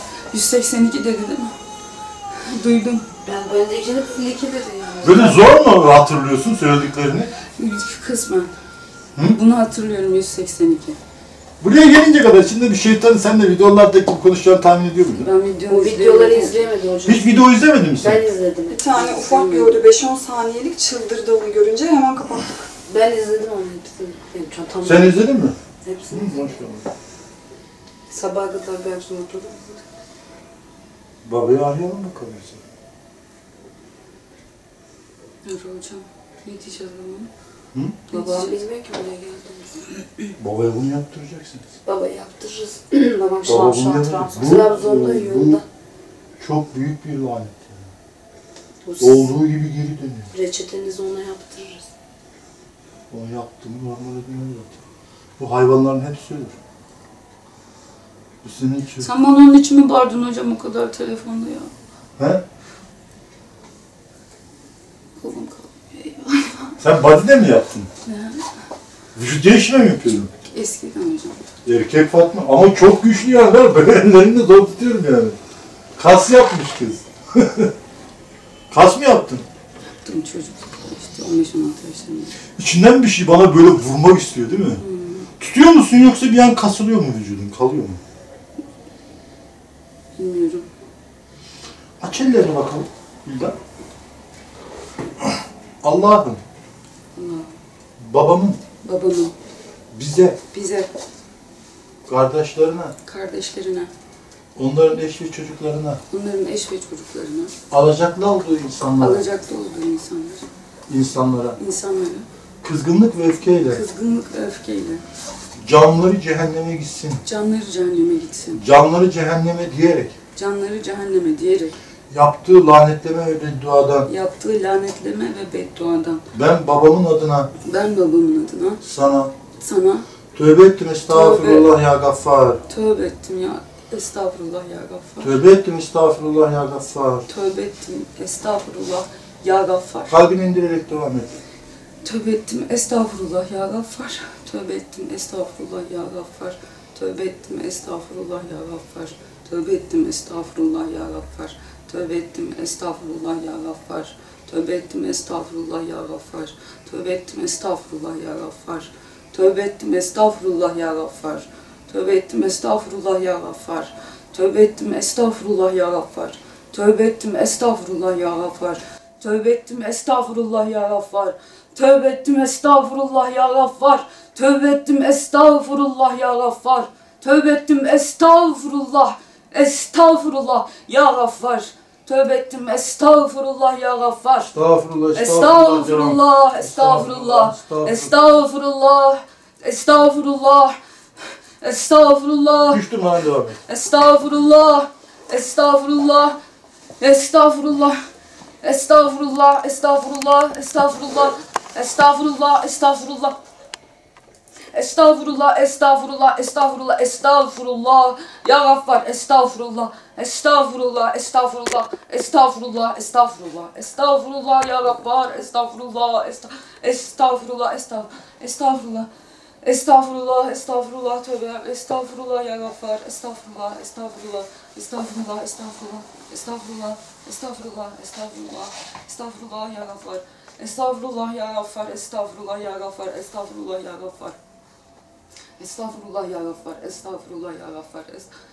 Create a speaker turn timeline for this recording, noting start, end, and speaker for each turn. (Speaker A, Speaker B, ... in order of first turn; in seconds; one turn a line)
Speaker A: 0.3-1.5
Speaker A: 2.5-3.1
Speaker B: 3.2-5.4
Speaker C: 5.0-7.3
Speaker A: 7.6-8.5
Speaker A: 9.3-11.0
Speaker C: 11.6-15.3
Speaker A: 15.1-16.8
Speaker B: 15.7-17.4
Speaker C: 17.1-18.3
Speaker B: 18.0-18.9
Speaker A: 18.3-19.8
Speaker D: 18.7-22.7
Speaker B: 22.9-25.2
Speaker A: 23.1-23.5
Speaker A: 24.6-24.8
Speaker C: 24.8-26.9
Speaker B: 25.8-26.4
Speaker B: 28.1-29.8
Speaker C: 31.2-32.6
Speaker A: 35.4-37.3
Speaker C: 37.7-38.0
Speaker A: 38.1-38.7
Speaker B: 38.1-39.8
Speaker C: 40.4-41.7
Speaker B: 41.9-45.6
Speaker C: 43.5-45.6
Speaker C: 46.4-47.9
Speaker B: 48.9-49.2
Speaker C: 49.0-50.3
Speaker B: 50.3-51.8
Speaker C: 53.1-54.8
Speaker C: 55.4-56.6
Speaker C: 58.4-59.1
Speaker A: 59.0-61.7
Speaker C: 62.2-62.4
Speaker A: 65.2-66.8
Speaker C: 66.8-67.9
Speaker A: 68.0-68.4
Speaker C: 69.2-70.3
Speaker A: 70.5-71.4
Speaker C: 71.7-75.4
Speaker C: 76.0-77.7
Speaker C: 78.7-79.5
Speaker A: 80.0-82.4
Speaker C: 82.6-84.8
Speaker A: 84.8-85.3
Speaker C: 85.4-88.0
Speaker A: 90.2-90.7
Speaker C: 92.0-93.6
Speaker C: 95.2-96.4
Speaker A: 97.2-97.5
Speaker C: 98.0-98.6
Speaker A: 98.8-99.3
Speaker C: 99.9-100.4
Speaker A: 100.5-100.9
Speaker C: 102.1-102.9
Speaker A: 103.1-103.9
Speaker C: 104.5-106.0
Speaker A: 106.1-107.5
Speaker C: 107.7-109.3
Speaker A: 109.0-110.5
Speaker C: 110.9-111.6
Speaker A: 111.6-112.3
Speaker C: 112.6-113.8
Speaker A: 113.7-115.0
Speaker C: 115.6-117.2
Speaker A: 117.2-118.6
Speaker C: 118.5-120.2
Speaker A: 120.3-121.8
Speaker C: 122.1-124.1
Speaker A: 124.1-126.2
Speaker C: 126.3-127.5
Speaker A: 127.6-128.8
Speaker C: 128.8-129.3
Speaker A: 129.6-130.1
Speaker C: 130.3-132.6
Speaker A: 131.1-131.7
Speaker A: 132.7-135.3
Speaker C: 135.2-137.3
Speaker A: 137.3-140.2
Speaker C: 140.1-141.3
Speaker A: 142.0-184.6
Speaker C: 184.5-188.1
Speaker A: 185.2-190.8
Speaker A: 191.6-192.8
Speaker C: 192.7-193.6
Speaker A: 193.7-196.4
Speaker A: 197.0-198.0
Speaker A: 198.6-203.4
Speaker A: 204.7-219.1
Speaker A: 219.6-234.4
Speaker A: 235.6-238.3